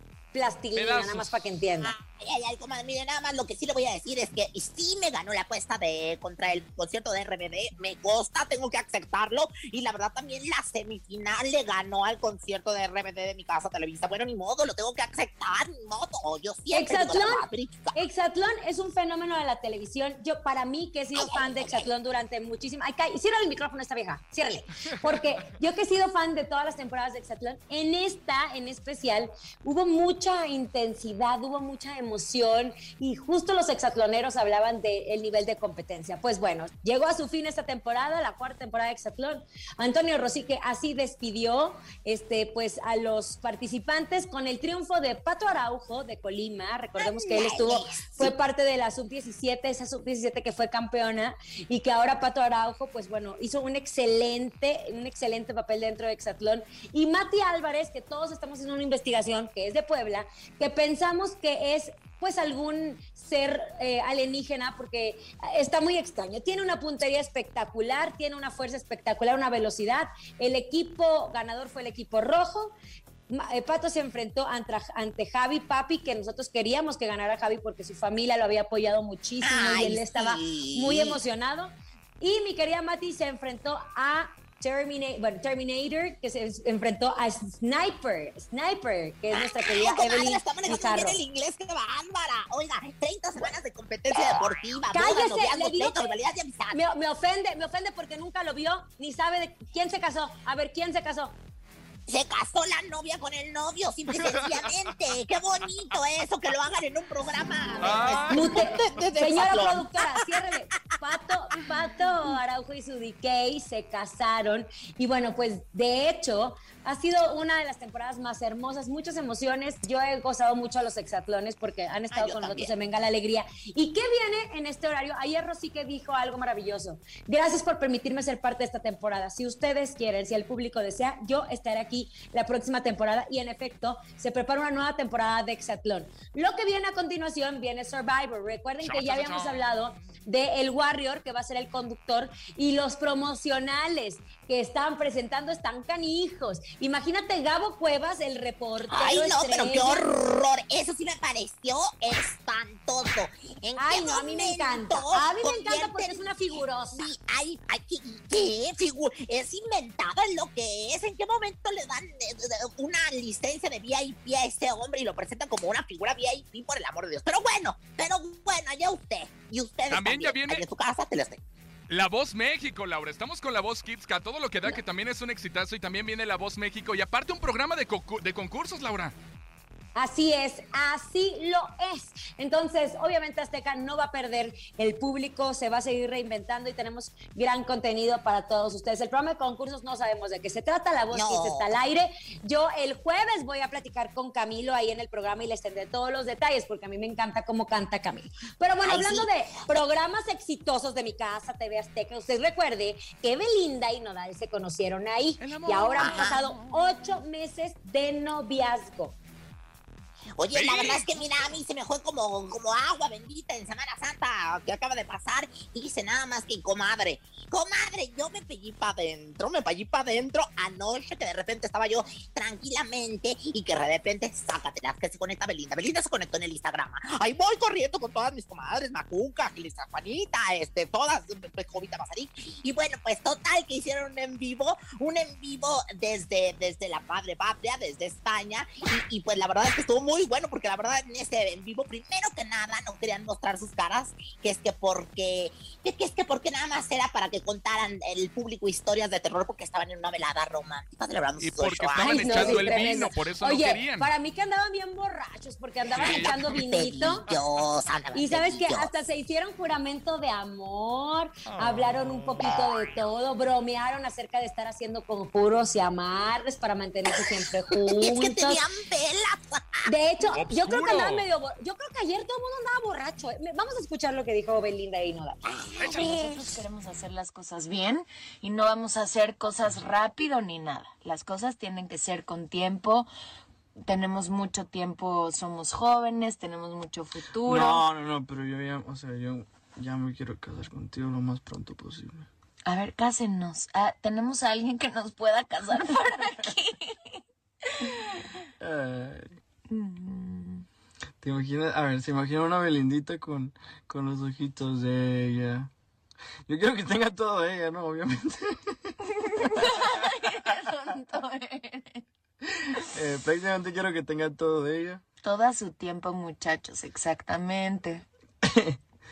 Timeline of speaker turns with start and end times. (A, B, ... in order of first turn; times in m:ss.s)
0:00.3-0:01.9 A
0:00.8-0:01.4 B
0:01.8-0:18.0 C
0:16.7-1:12.7 A
0:21.1-0:21.9 C
0:47.0-0:48.3 C
1:13.3-1:31.2 A
1:19.4-1:21.2 C
1:29.3-1:36.8 C
1:34.1-1:36.1 A
1:36.7-1:41.3 A
1:42.1-1:50.1 C
1:44.1-1:45.0 B
1:47.8-1:48.8 B
1:48.3-2:30.0 A
2:02.1-2:02.7 C
2:18.8-2:20.0 B
2:28.9-2:36.4 C
2:33.8-2:37.1 A
2:36.9-2:51.4 C
2:49.9-2:50.6 B
2:51.9-2:59.1 B
2:59.9-3:29.2 A
3:11.1-3:11.7 C
3:18.8-3:19.3 C
3:25.4-3:26.6 B
3:26.0-3:26.4 C
3:30.4-4:12.9 C
3:30.5-3:31.0 B
4:11.4-4:14.1 B
4:12.0-4:17.2 A
4:15.9-4:18.9 C
4:16.0-4:16.6 B
4:17.3-4:17.6 B
4:18.1-4:28.6 A
4:21.6-4:22.1 B
4:27.9-4:29.9 C
4:29.9-4:35.4 A
4:30.3-4:31.3 B
4:35.5-4:36.6 C
4:35.8-4:36.2 B
4:35.8-4:43.1 D
4:43.8-4:47.8 D
4:47.4-4:52.3 E
4:52.6-4:56.9 D
4:58.6-4:59.4 E
4:59.7-5:00.6 D
5:01.2-5:05.7 E
5:06.5-5:08.8 E
5:09.4-5:12.0 D
5:12.9-5:15.0 E
5:15.2-5:18.0 D
5:18.5-5:18.8 E